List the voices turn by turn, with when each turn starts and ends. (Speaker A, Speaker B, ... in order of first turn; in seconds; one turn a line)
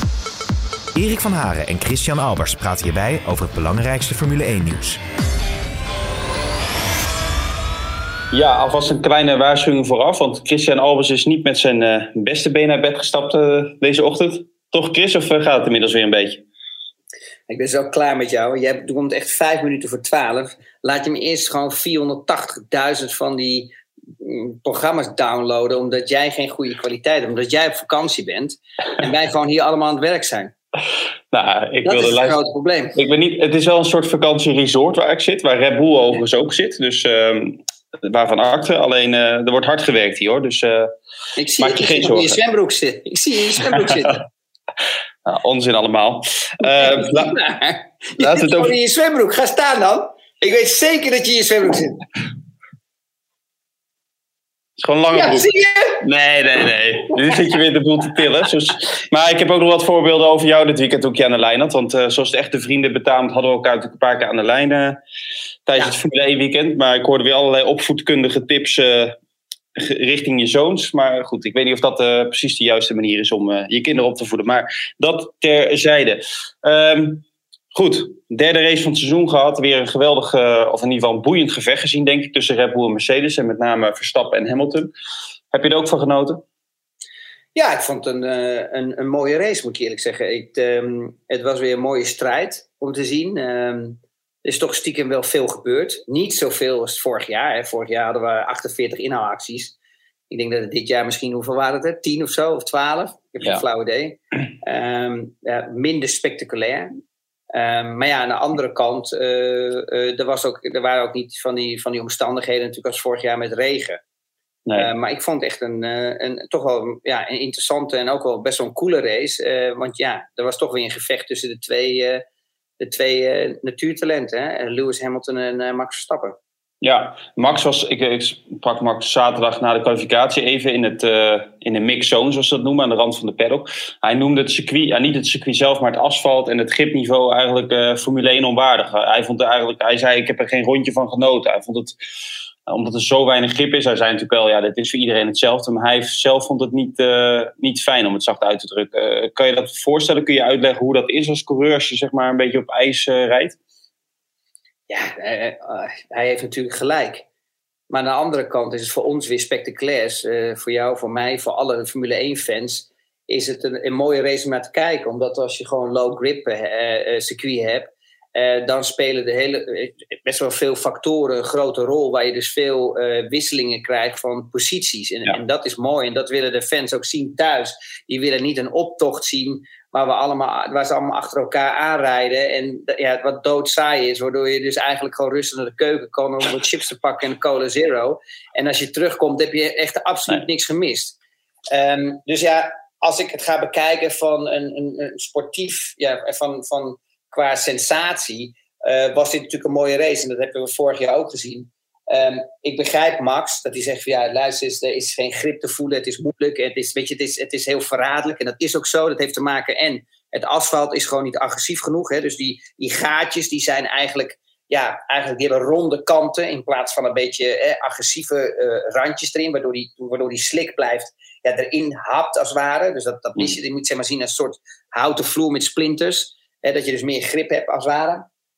Speaker A: 0.9-5.0
Speaker B: 8.3-16.4
Speaker C: 17.5-30.5
Speaker B: 31.3-32.4
Speaker C: 31.8-33.0
Speaker B: 32.9-40.9
Speaker C: 41.4-44.2
Speaker B: 41.6-42.4
Speaker B: 45.2-47.4
Speaker C: 46.8-52.0
Speaker B: 48.2-48.7
Speaker B: 54.8-55.5
Speaker C: 55.1-56.0
Speaker B: 56.0-65.0
Speaker B: 65.7-69.2
Speaker B: 69.7-84.9
Speaker B: 85.5-86.4
Speaker C: 87.5-99.7
Speaker C: 100.3-106.9
Speaker C: 107.5-114.0
Speaker C: 114.7-122.2
Speaker C: 122.8-126.4
Speaker B: 126.8-141.9
Speaker B: 142.7-153.6
Speaker C: 154.9-157.2
Speaker C: 157.9-191.2
Speaker C: 191.7-228.2